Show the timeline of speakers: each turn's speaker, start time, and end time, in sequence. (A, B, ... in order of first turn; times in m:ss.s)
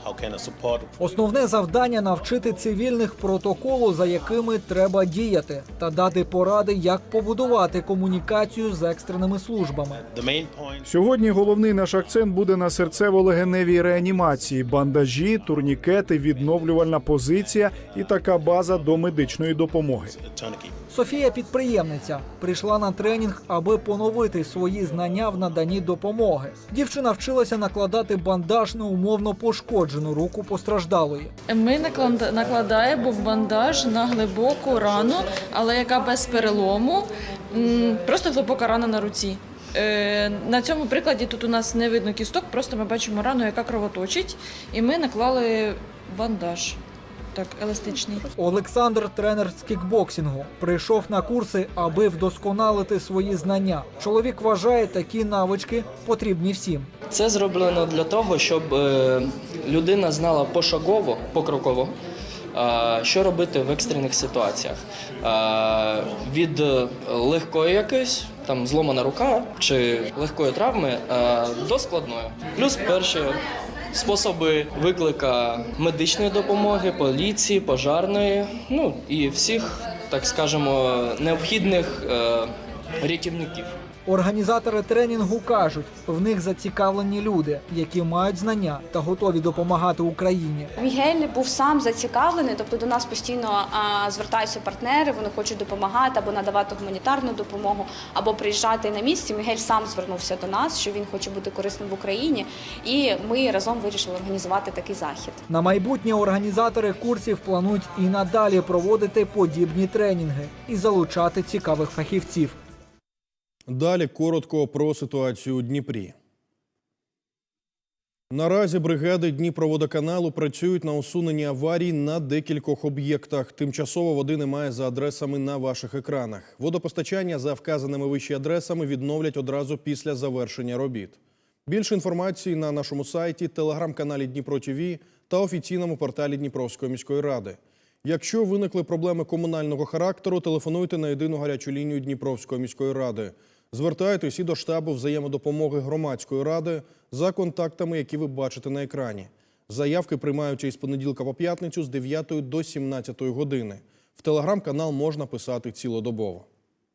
0:01.0-0:10.0 A
0:10.9-0:15.7 B
0:16.3-0:20.1 B
0:20.9-0:31.3 A
0:31.5-0:46.8 C
0:47.3-0:48.3 C
0:48.4-0:56.9 A
0:57.1-1:01.9 D
1:02.5-1:13.4 D
1:13.9-1:23.7 D
1:24.0-1:30.7 A
1:30.8-1:45.4 E
1:45.5-1:52.6 A
1:53.7-1:56.1 F
1:58.3-2:36.4 F